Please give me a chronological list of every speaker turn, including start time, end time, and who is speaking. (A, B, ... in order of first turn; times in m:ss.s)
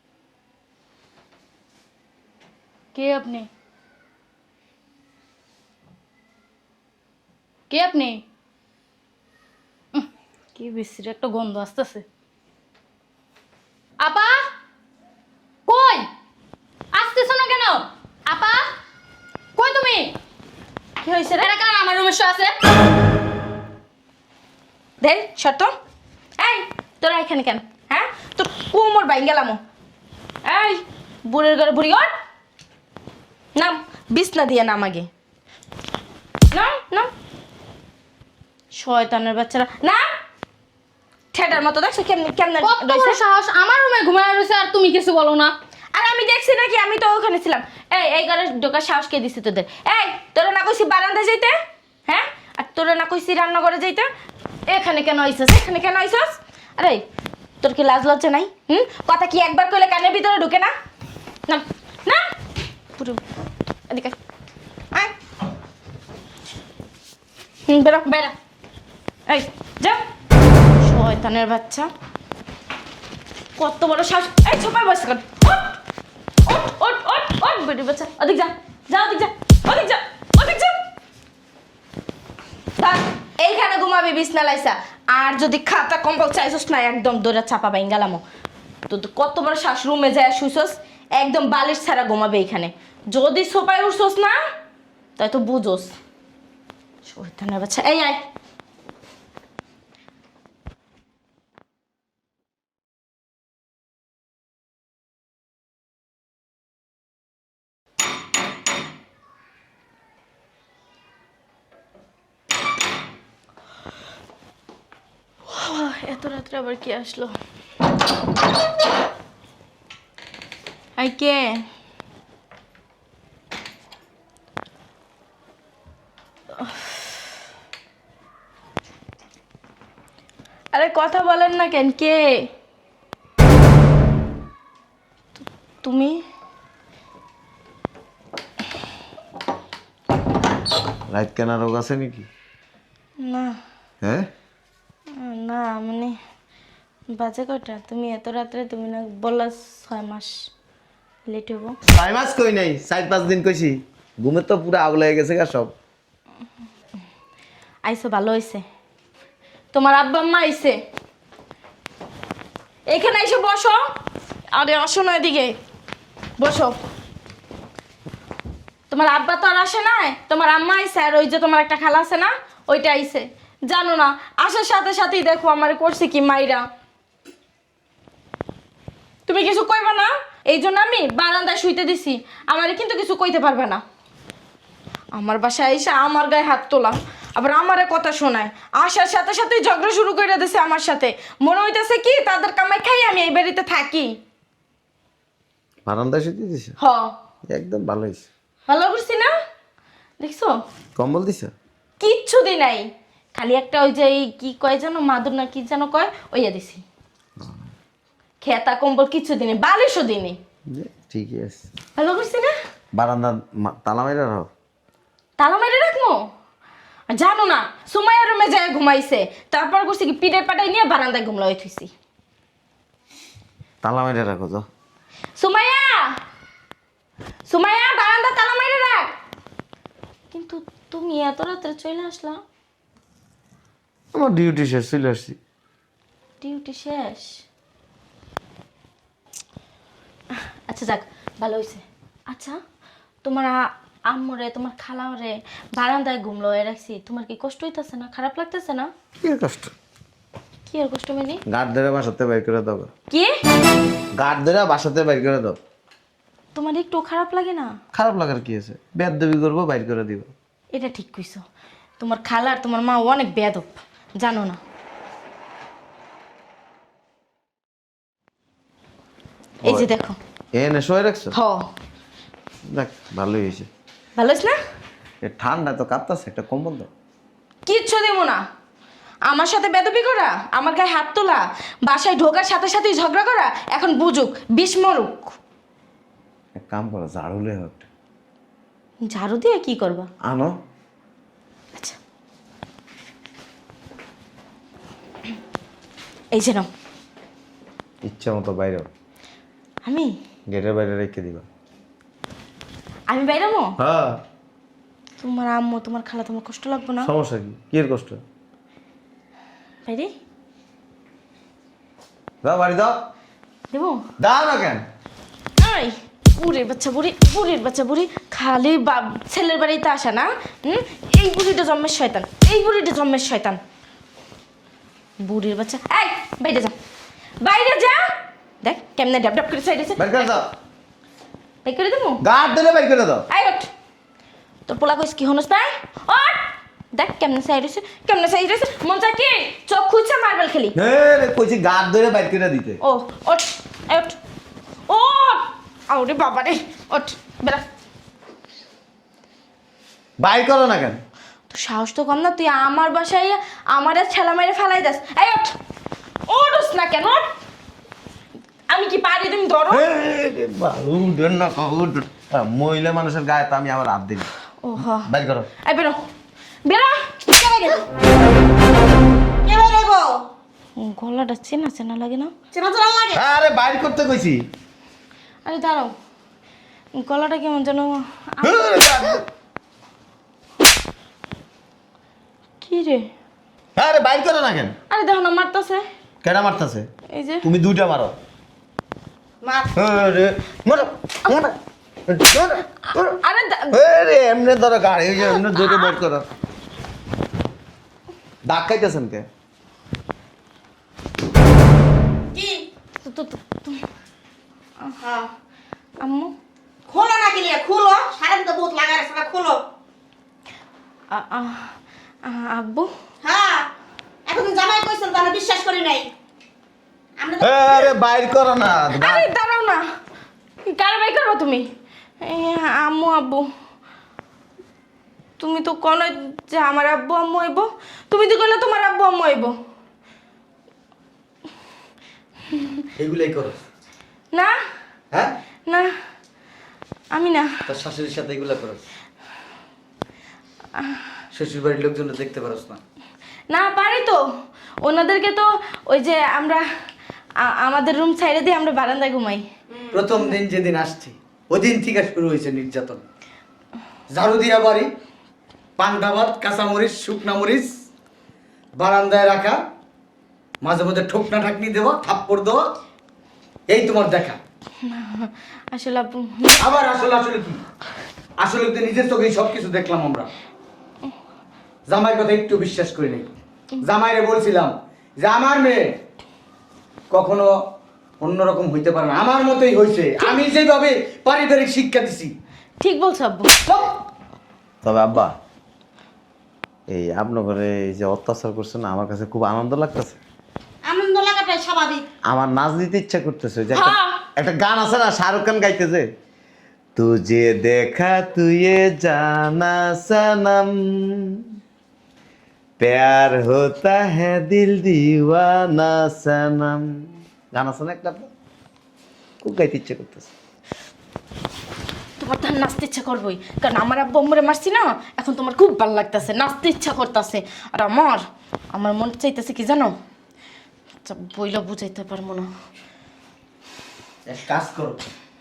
0:02.9-0:03.5 A
0:07.7-0:08.2 A
0:09.9-0:12.0 A
0:14.0-0:14.5 A
0:15.7-0:16.1 A
0:16.9-0:18.7 A
0:19.6-0:20.1 A
0:21.0-0:21.5 B
0:21.4-0:22.6 A
0:25.0-0:25.8 B
0:26.4-0:29.6 B
0:30.4-0:32.1 B
0:33.6-0:35.1 B
0:36.5-0:37.1 B
0:38.8-0:40.1 B
0:41.3-0:43.2 B
0:42.6-0:45.6 A
0:45.9-0:51.6 B
0:52.1-0:54.1 B
0:54.7-0:57.0 B
0:57.6-1:00.7 B
1:01.5-1:02.3 B
1:03.0-1:03.2 B
1:03.9-1:04.2 B
1:07.7-1:08.3 B
1:09.3-1:10.0 B
1:10.8-1:11.9 B
1:13.6-1:15.8 B
1:16.4-1:20.8 B
1:22.8-1:28.2 B
1:28.9-1:34.4 B
1:35.2-1:35.9 B
1:37.1-1:38.2 B
1:55.5-1:57.4 B
2:01.0-2:01.6 B
2:06.6-2:07.0 B
2:10.7-2:12.5 B
2:15.4-2:16.2 B
2:21.1-2:22.3 C
2:23.2-2:23.6 B
2:24.0-2:24.3 C
2:25.1-2:26.2 B
2:27.1-2:30.5 B
2:31.3-2:31.8 B
2:31.9-2:35.7 C
2:37.8-2:38.6 B
2:39.7-2:40.8 B
2:42.9-2:43.8 B
2:44.5-2:45.6 B
2:46.4-2:46.8 B
2:48.9-2:56.6 B
2:59.3-3:03.8 B
3:05.1-3:14.1 B
3:15.8-3:16.8 C
3:16.8-3:17.1 B
3:17.5-3:18.3 C
3:18.7-3:19.3 B
3:20.2-3:20.6 B
3:21.0-3:21.5 C
3:22.0-3:26.8 B
3:28.4-3:30.4 B
3:30.7-3:31.7 C
3:31.9-3:32.5 B
3:32.9-3:34.5 C
3:35.4-3:36.3 B
3:37.1-3:41.9 B
3:43.8-3:44.6 C
3:45.4-3:46.2 B
3:47.5-3:49.2 B
3:50.3-3:52.4 B
3:54.1-3:55.4 C
3:56.4-3:57.4 B
4:00.3-4:02.6 B
4:03.2-4:08.9 B
4:09.2-4:09.7 C
4:10.7-4:11.4 B
4:11.5-4:12.9 C
4:14.2-4:15.6 C
4:16.6-4:17.7 B
4:17.9-4:20.3 C
4:20.7-4:21.4 B
4:22.0-4:24.6 B
4:29.6-4:29.9 C
4:29.6-4:30.2 B
4:30.6-4:31.3 C
4:31.3-4:31.7 B
4:32.7-4:33.7 C
4:34.2-4:34.6 B
4:35.2-4:36.9 C
4:37.7-4:38.4 B
4:39.3-4:45.3 B
4:46.6-4:47.9 C
4:49.1-4:50.1 B
4:50.2-4:50.5 C
4:56.3-4:56.7 B
4:58.0-4:58.9 C
4:59.8-5:00.1 B
5:00.5-5:01.4 C
5:03.1-5:03.7 B
5:03.8-5:04.2 C
5:05.2-5:07.1 B
5:07.0-5:08.2 C
5:09.8-5:10.1 B
5:12.4-5:12.9 C
5:13.7-5:14.0 B
5:14.2-5:14.8 C
5:15.6-5:23.6 B
5:25.2-5:26.7 B
5:27.4-5:30.3 B
5:30.0-5:30.5 C
5:31.6-5:32.2 B
5:32.2-5:33.2 C
5:33.3-5:33.7 B
5:34.7-5:40.7 B
5:40.7-5:42.8 C
5:42.8-5:44.2 B
5:44.9-5:47.6 B
5:50.2-5:51.0 C
5:51.5-5:55.5 B
5:56.3-5:57.3 B
5:58.7-5:59.8 B
5:59.7-6:04.3 C
6:04.6-6:05.1 B
6:05.0-6:05.5 C
6:05.6-6:06.0 B
6:06.6-6:07.1 B
6:07.4-6:07.9 D
6:09.4-6:10.2 D
6:10.8-6:12.3 B
6:12.5-6:13.2 D
6:13.1-6:14.4 C
6:15.4-6:15.9 B
6:16.9-6:18.8 B
6:18.4-6:19.2 C
6:22.6-6:23.1 B
6:23.8-6:24.8 C
6:24.9-6:25.8 B
6:26.2-6:26.9 C
6:27.1-6:27.4 B
6:27.4-6:28.2 C
6:29.4-6:29.7 D
6:29.7-6:31.6 C
6:32.1-6:33.2 C
6:32.9-6:33.8 B
6:33.7-6:36.3 C
6:35.2-6:35.9 B
6:38.4-6:39.3 C
6:42.3-6:42.7 D
6:43.0-6:43.8 B
6:44.8-6:45.1 B
6:45.0-6:45.3 D
6:46.0-6:46.3 B
6:46.9-6:49.6 D
6:51.1-6:52.9 B
6:53.2-6:53.7 D
6:54.2-6:56.1 D
6:57.2-6:57.9 D
6:57.4-6:59.3 C
6:58.9-6:59.8 B
7:00.7-7:01.7 B
7:02.2-7:03.5 B
7:05.4-7:09.6 B
7:12.5-7:12.8 B
7:13.0-7:13.6 E
7:15.1-7:15.4 E
7:15.7-7:16.0 B
7:17.1-7:17.7 B
7:17.7-7:18.8 E
7:20.8-7:21.0 B
7:21.3-7:22.8 E
7:23.5-7:24.2 B
7:24.8-7:26.6 B
7:27.4-7:29.4 B
7:29.9-7:33.0 E
7:34.1-7:34.9 E
7:35.8-7:37.8 E
7:38.8-7:39.6 E
7:40.6-7:42.7 E
7:43.7-7:44.4 E
7:44.8-7:46.7 B
7:46.6-7:47.6 E
7:48.4-7:50.3 E
7:51.9-7:56.0 E
7:57.1-7:57.5 E
7:58.2-8:02.3 E
8:02.8-8:03.6 B
8:03.7-8:03.9 E
8:04.8-8:05.3 C
8:06.9-8:10.2 C
8:10.8-8:12.0 D
8:12.3-8:16.1 C
8:13.7-8:14.2 B
8:17.0-8:21.5 C
8:22.8-8:26.8 C
8:27.5-8:28.3 C
8:29.4-8:30.3 C
8:32.2-8:39.9 B
8:41.0-8:42.5 B
8:44.2-8:45.0 E